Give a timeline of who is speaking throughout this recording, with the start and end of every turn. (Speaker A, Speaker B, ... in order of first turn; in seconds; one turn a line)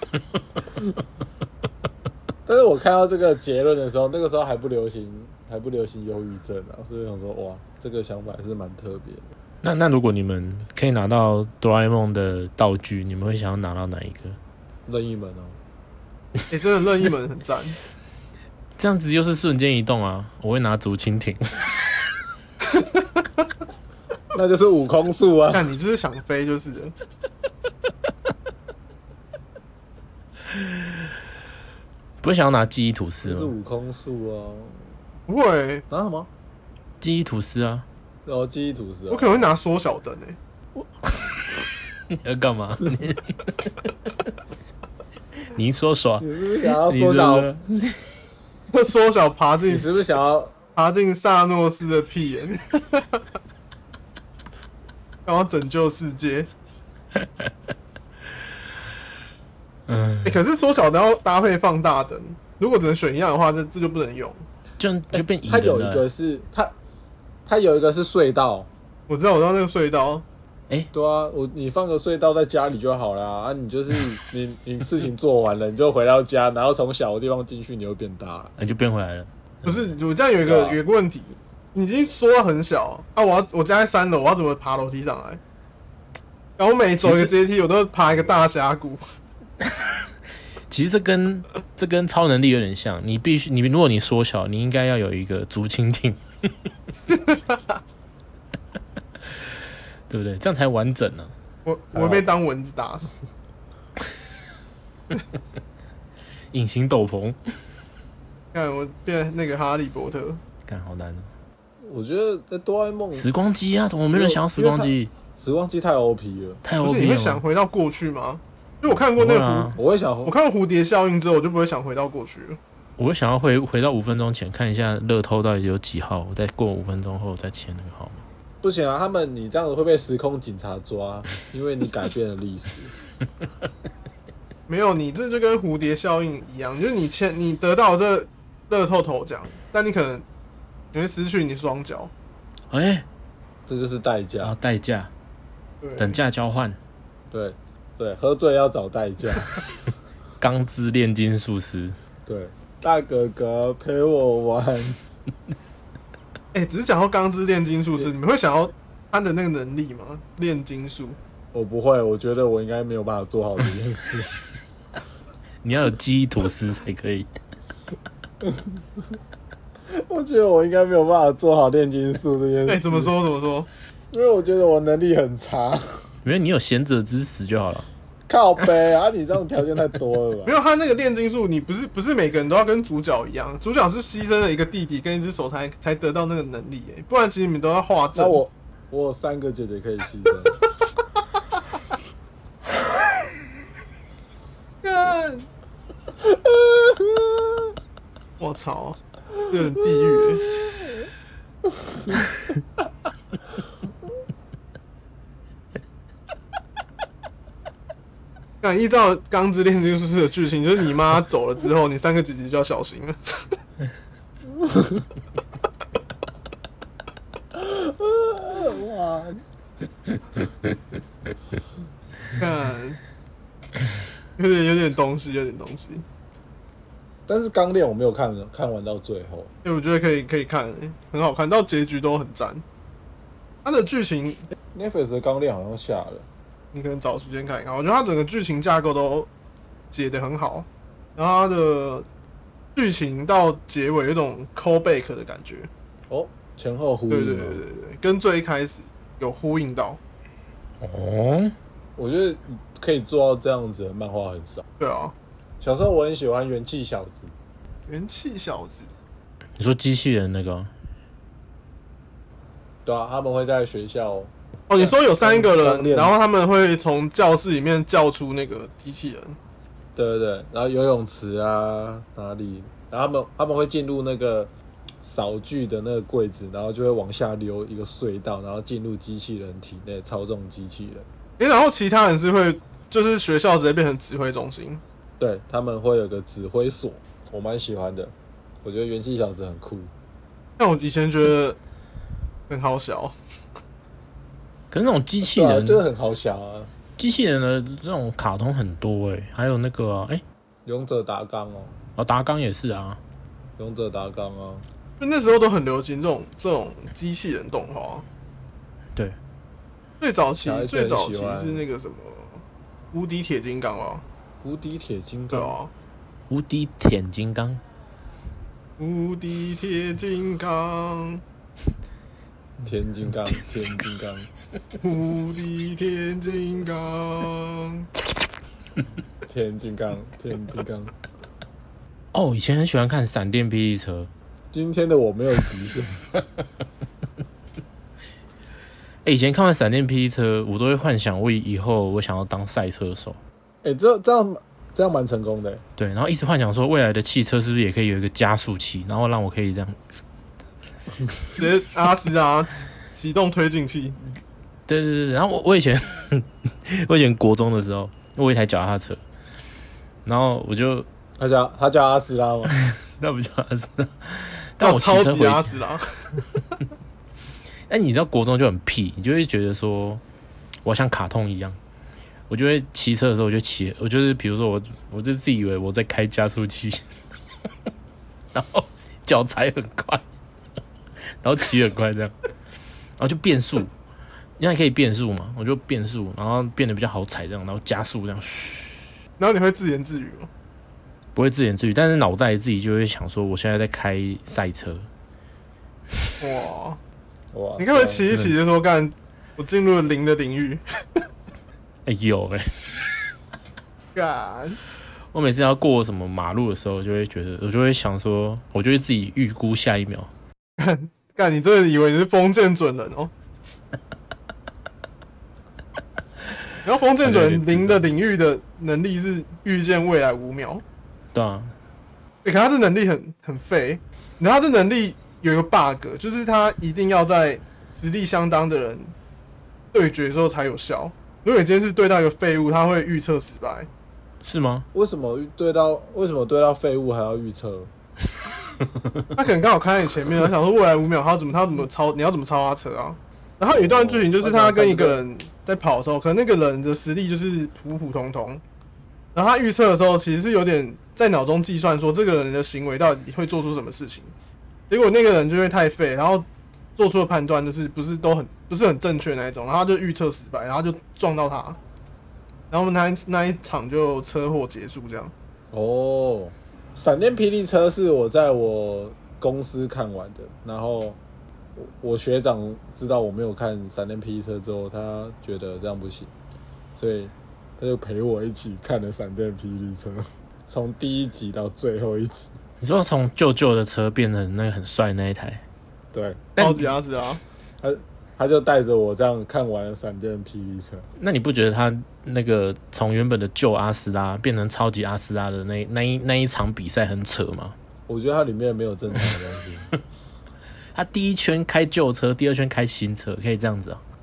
Speaker A: 2.5-9.2
Speaker B: 9.6-14.4
Speaker A: 14.9-15.6
Speaker C: 16.5-17.8
Speaker B: 18.8-21.7
Speaker C: 22.7-23.2
Speaker A: 24.3-25.7
Speaker C: 25.5-26.9
Speaker B: 32.2-33.5
Speaker A: 33.2-34.9
Speaker C: 35.3-35.8
Speaker A: 35.9-36.3
Speaker B: 37.0-37.9
Speaker A: 38.2-39.5
Speaker C: 39.1-40.4
Speaker B: 40.8-43.7
Speaker B: 45.5-48.1
Speaker A: 46.2-47.5
Speaker C: 48.7-49.9
Speaker A: 49.7-50.6
Speaker C: 50.8-53.2
Speaker C: 55.3-56.5
Speaker B: 59.9-60.4
Speaker C: 60.2-64.4
Speaker B: 64.8-66.0
Speaker A: 65.1-66.7
Speaker A: 67.5-68.7
Speaker C: 69.1-70.2
Speaker A: 70.9-78.5
Speaker B: 78.6-79.8
Speaker C: 79.6-85.4
Speaker A: 80.5-80.8
Speaker C: 86.6-89.0
Speaker B: 87.0-87.3
Speaker B: 90.7-96.5
Speaker C: 97.1-97.8
Speaker B: 100.1-101.3
Speaker C: 101.7-103.2
Speaker A: 101.9-102.3
Speaker B: 106.5-107.4
Speaker C: 108.5-110.4
Speaker B: 110.7-111.3
Speaker A: 111.8-113.3
Speaker B: 113.1-115.1
Speaker A: 114.1-116.6
Speaker B: 116.6-117.4
Speaker C: 116.8-122.6
Speaker B: 119.2-119.8
Speaker A: 119.8-120.3
Speaker B: 123.0-128.2
Speaker A: 128.6-132.9
Speaker C: 134.7-140.2
Speaker C: 140.9-142.1
Speaker B: 142.7-143.1
Speaker A: 143.7-144.6
Speaker B: 144.4-145.1
Speaker C: 145.8-146.2
Speaker B: 146.0-146.8
Speaker A: 147.3-149.6
Speaker B: 150.4-152.0
Speaker A: 152.3-155.0
Speaker C: 156.5-161.2
Speaker A: 161.5-164.4
Speaker B: 165.6-167.3
Speaker A: 168.4-169.1
Speaker A: 169.9-173.1
Speaker C: 172.7-173.7
Speaker A: 174.1-176.1
Speaker B: 176.2-177.9
Speaker A: 178.3-180.5
Speaker C: 180.4-188.4
Speaker A: 188.2-190.6
Speaker C: 194.8-195.5
Speaker A: 196.2-197.7
Speaker C: 198.4-200.5
Speaker A: 199.8-201.1
Speaker A: 201.9-202.3
Speaker C: 208.6-213.4
Speaker A: 214.5-215.1
Speaker A: 217.5-219.4
Speaker C: 222.4-223.0
Speaker C: 224.4-226.1
Speaker A: 227.3-229.5
Speaker C: 229.6-232.6
Speaker C: 233.6-234.5
Speaker A: 234.7-236.3
Speaker C: 236.7-239.3
Speaker C: 239.9-242.1
Speaker C: 242.8-245.7
Speaker A: 246.1-247.6
Speaker C: 247.1-250.0
Speaker B: 250.8-251.6
Speaker A: 252.0-254.6
Speaker C: 254.8-255.1
Speaker A: 255.6-257.3
Speaker C: 257.9-258.9
Speaker B: 259.6-260.7
Speaker A: 262.9-266.1
Speaker C: 264.7-269.4
Speaker A: 270.0-274.5
Speaker A: 275.0-281.1
Speaker C: 281.4-284.8
Speaker A: 285.2-289.9
Speaker C: 290.6-291.6
Speaker C: 292.5-293.1
Speaker B: 294.7-295.8
Speaker A: 295.2-296.7
Speaker B: 297.0-300.2
Speaker A: 300.6-301.8
Speaker B: 302.0-303.0
Speaker A: 303.6-304.7
Speaker C: 305.0-308.1
Speaker C: 310.0-314.0
Speaker A: 310.4-311.6
Speaker A: 314.4-315.6
Speaker C: 315.3-315.7
Speaker B: 316.3-317.6
Speaker C: 318.8-321.2
Speaker A: 322.6-324.3
Speaker C: 324.8-327.9
Speaker A: 329.3-330.9
Speaker B: 332.1-334.1
Speaker A: 334.5-336.1
Speaker B: 339.1-343.2
Speaker A: 343.6-345.6
Speaker B: 345.8-349.8
Speaker C: 351.4-354.0
Speaker B: 354.7-359.0
Speaker B: 360.1-360.9
Speaker A: 361.2-362.5
Speaker B: 362.5-365.5
Speaker C: 364.6-366.2
Speaker B: 367.7-370.0
Speaker B: 370.6-371.6
Speaker B: 372.3-376.9
Speaker B: 378.3-380.0
Speaker B: 381.2-382.1
Speaker B: 383.0-383.7
Speaker B: 384.4-388.9
Speaker C: 389.2-390.3
Speaker B: 391.1-394.9
Speaker C: 396.2-396.8
Speaker A: 397.3-398.4
Speaker C: 397.6-400.6
Speaker B: 401.9-402.8
Speaker C: 403.9-404.6
Speaker B: 405.1-410.1
Speaker C: 410.6-413.1
Speaker C: 416.6-420.6
Speaker B: 417.0-417.8
Speaker B: 421.1-421.5
Speaker C: 422.2-428.9
Speaker C: 429.7-433.7
Speaker B: 434.2-434.7
Speaker A: 434.7-437.7
Speaker C: 439.1-448.4
Speaker A: 443.5-445.0
Speaker C: 449.1-454.1
Speaker C: 454.7-461.6
Speaker C: 462.5-465.1
Speaker A: 465.5-471.0
Speaker A: 471.6-476.1
Speaker A: 476.8-482.3
Speaker B: 482.6-485.4
Speaker A: 485.9-486.3
Speaker B: 486.4-486.8
Speaker C: 486.4-487.2
Speaker A: 487.6-490.9
Speaker B: 491.0-497.6
Speaker A: 497.9-499.7
Speaker B: 500.7-503.8